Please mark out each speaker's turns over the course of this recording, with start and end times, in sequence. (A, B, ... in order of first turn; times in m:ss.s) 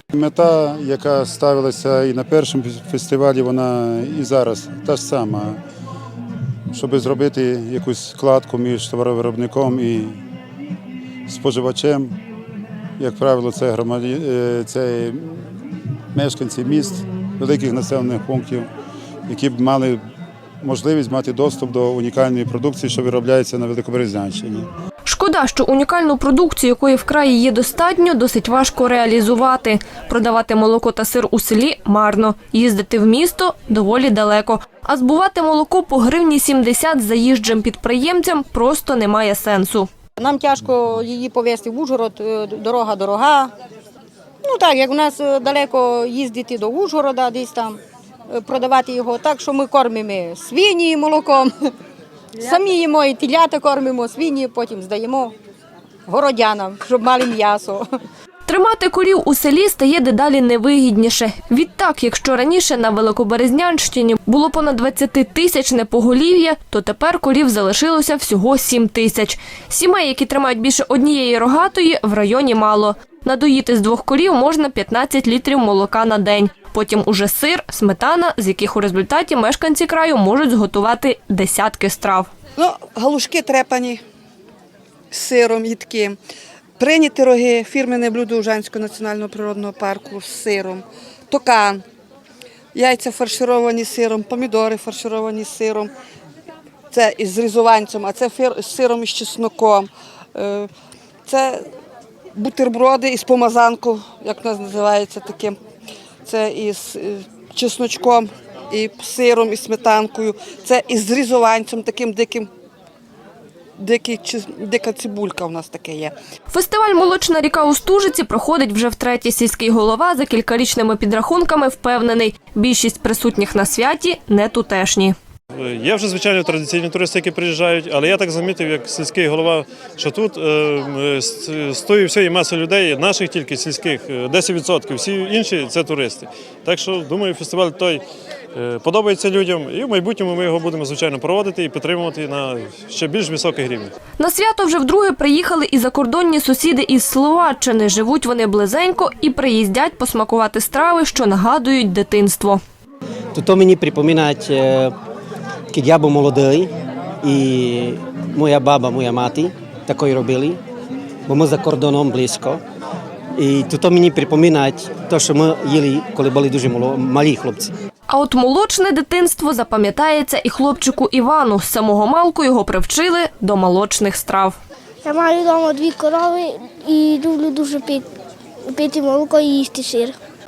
0:00.1-0:05.6 A
0:06.7-0:10.2 A
0:11.3-0:12.2 A
0:13.0-0:15.5 A
0:16.1-0:18.7 A
0:19.3-0:20.0 A
0:20.6-0:24.7 A
0:25.0-0:39.9 B
0:40.2-0:43.5 C
0:44.4-0:51.5 C
0:52.4-0:55.3 C
0:56.1-0:57.8 C
0:58.4-1:22.3 B
1:22.6-1:24.0 D
1:25.1-1:26.2 D
1:26.8-1:31.8 D
1:32.7-1:35.9 D
1:36.9-1:40.7 D
1:41.3-1:41.6 D
1:42.3-1:45.6 D
1:46.2-1:52.5 D
1:53.8-1:56.1 D
1:56.5-2:05.1 B
2:05.5-2:18.0 E
2:18.5-2:23.9 E
2:24.2-2:32.6 B
2:33.3-2:34.9 F
2:35.7-2:40.6 F
2:41.3-2:42.6 F
2:43.3-2:47.7 F
2:48.1-2:54.6 B
2:55.0-2:58.1 G
2:58.6-3:00.2 G